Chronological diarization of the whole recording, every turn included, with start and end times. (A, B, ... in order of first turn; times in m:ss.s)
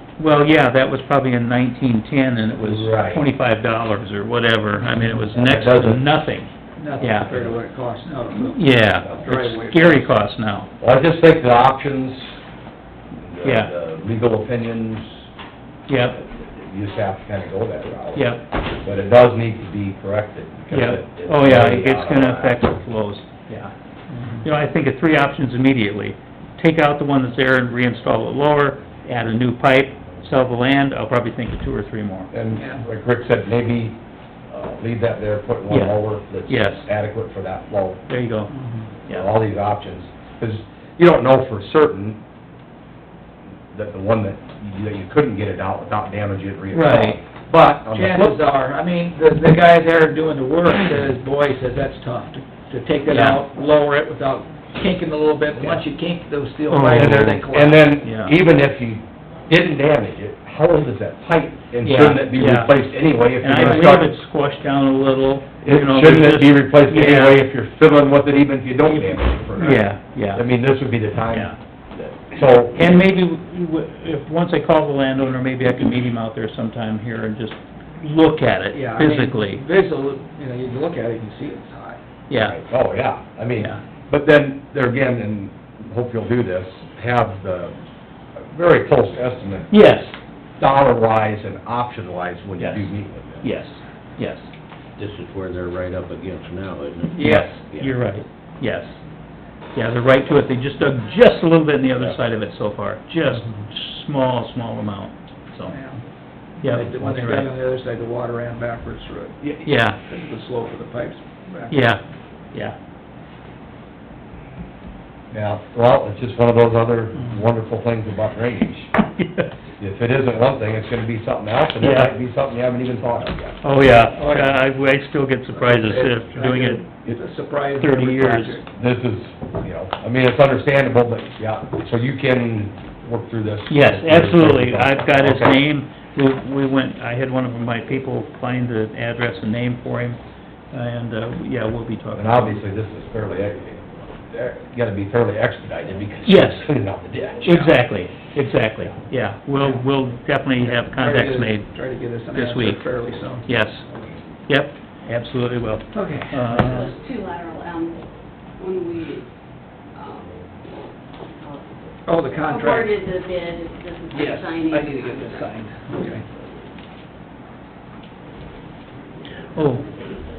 0:00.2-0:07.5 A
0:02.6-0:03.2 B
0:05.1-0:06.1 B
0:06.8-0:10.1 C
0:08.4-0:10.7 A
0:10.8-0:12.4 B
0:13.1-0:15.2 B
0:13.4-0:13.7 A
0:15.9-0:16.2 A
0:16.3-0:22.6 B
0:18.1-0:18.4 A
0:20.7-0:23.7 A
0:24.4-0:32.3 A
0:32.3-0:38.0 B
0:35.7-0:36.9 A
0:38.1-0:38.5 A
0:38.5-0:38.9 C
0:39.1-0:42.2 B
0:43.7-0:48.4 B
0:46.7-0:47.2 A
0:47.9-0:57.9 C
0:53.1-0:53.4 A
0:56.7-0:57.3 A
0:56.9-1:04.1 B
0:58.0-0:58.4 A
1:01.8-1:02.8 A
1:03.4-1:07.4 A
1:05.6-1:11.5 B
1:09.0-1:10.4 A
1:11.3-1:11.6 A
1:12.1-1:13.0 B
1:12.8-1:19.6 A
1:18.7-1:22.0 C
1:22.3-1:22.6 A
1:22.4-1:27.8 B
1:28.4-1:29.8 B
1:29.7-1:30.2 A
1:30.6-1:33.4 B
1:32.6-1:32.9 A
1:33.4-1:34.5 A
1:35.0-1:38.0 D
1:37.2-1:39.0 A
1:39.8-1:45.8 A
1:45.7-1:46.0 C
1:46.6-1:47.5 A
1:46.6-1:51.7 C
1:49.6-1:50.0 A
1:51.7-1:52.0 A
1:55.3-1:58.9 B
1:59.2-1:59.5 A
1:59.8-2:03.6 B
2:01.8-2:02.1 A
2:03.6-2:06.8 A
2:04.2-2:04.6 C
2:05.5-2:08.7 C
2:07.8-2:08.6 A
2:08.7-2:15.6 B
2:13.7-2:20.2 A
2:20.7-2:22.6 A
2:22.1-2:27.4 B
2:26.2-2:26.7 A
2:27.4-2:31.7 A
2:27.5-2:27.7 C
2:30.8-2:33.5 C
2:32.3-2:32.8 A
2:33.5-2:33.8 A
2:34.5-2:37.0 A
2:35.9-2:36.6 C
2:36.5-2:38.0 E
2:38.6-2:39.3 E
2:40.0-2:40.4 E
2:42.1-2:43.0 C
2:42.4-2:45.5 E
2:44.1-2:46.2 C
2:49.6-2:49.9 A